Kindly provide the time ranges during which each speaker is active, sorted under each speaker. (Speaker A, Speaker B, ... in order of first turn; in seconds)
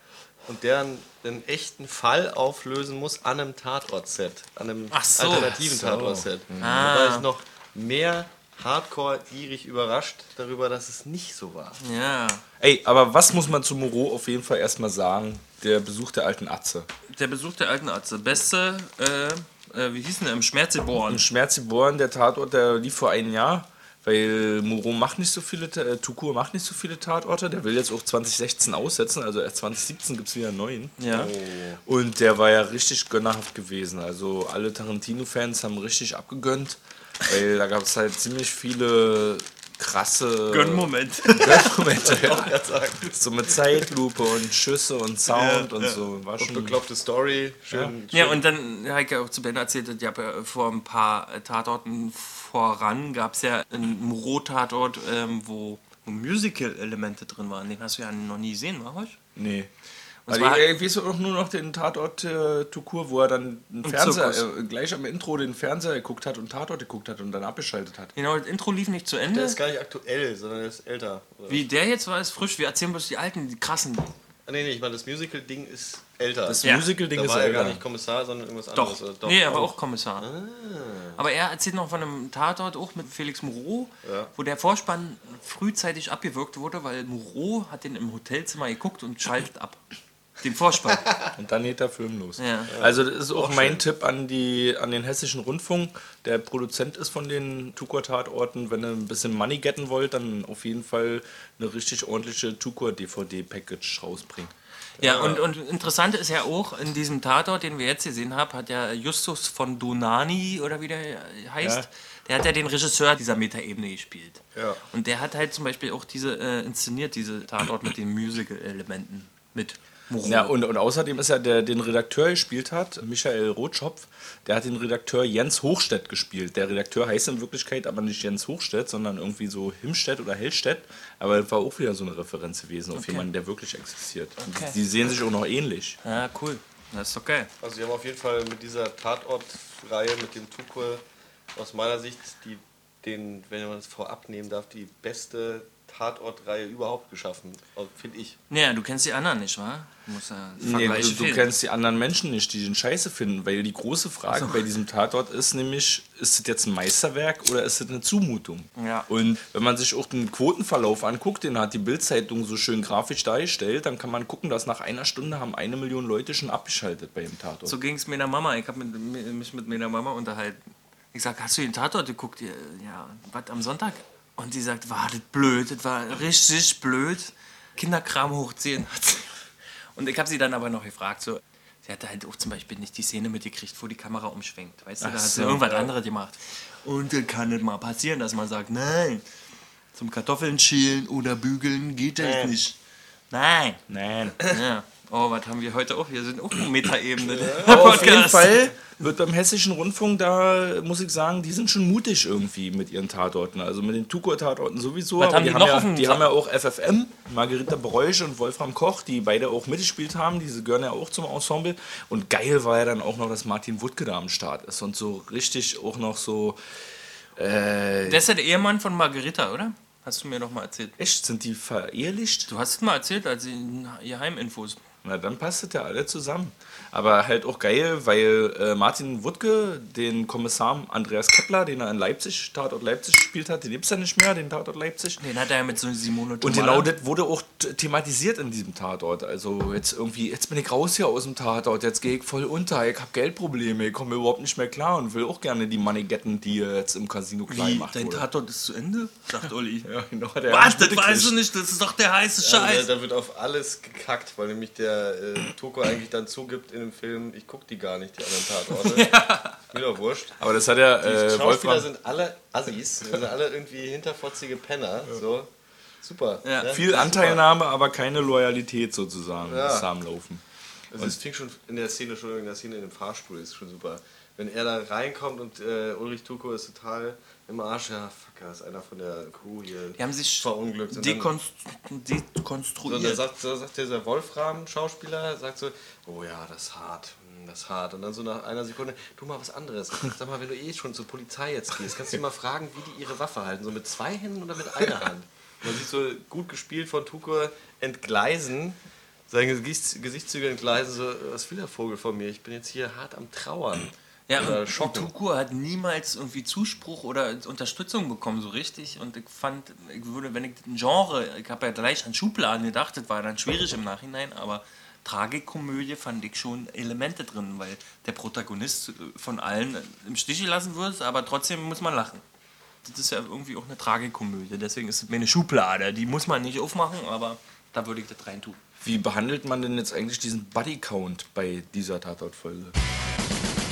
Speaker A: 0.5-11.8, 31.1-31.8, 41.6-43.9, 46.4-48.4, 69.3-71.7, 74.5-81.2, 84.0-84.3, 92.7-93.8, 105.0-105.4, 114.5-114.8, 137.6-141.0, 141.6-148.4, 192.2-192.5, 197.3-198.0, 252.4-259.1, 259.7-260.4, 261.0-265.5, 266.0-267.4, 269.4-269.9, 270.9-281.3, 282.9-298.8, 299.3-305.1
Speaker B: 4.9-5.7, 6.6-7.3, 11.8-12.4, 17.1-21.2, 31.0-31.3, 40.5-41.8, 45.3-46.0, 48.1-59.2, 60.3-60.6, 63.8-64.5, 68.2-69.6, 71.5-74.1, 76.6-76.9, 78.8-80.3, 81.2-89.8, 90.4-91.1, 92.4-92.7, 105.0-120.5, 132.9-133.3, 134.4-134.8, 136.0-137.5, 148.5-151.5, 154.3-154.6, 158.8-159.1, 167.7-170.6, 171.1-179.3, 179.9-189.2, 189.9-192.8, 193.3-193.8, 194.4-198.7, 205.2-206.3, 218.1-220.9, 222.5-224.8, 235.2-236.9, 247.5-249.9, 250.5-252.9, 258.8-259.6, 266.4-267.0, 280.0-283.2, 304.3-322.2, 322.8-328.6
Speaker C: 5.5-6.8, 12.6-16.9, 21.1-31.3, 31.9-46.8, 59.4-59.7, 60.3-68.1, 76.5-77.8, 91.3-104.5, 120.2-136.0, 150.6-167.8, 185.0-185.9, 193.9-194.5, 197.7-216.6, 217.4-218.3, 221.0-222.5, 225.0-235.2, 236.4-248.3, 249.8-251.4, 260.4-261.9, 266.7-270.4, 328.8-332.8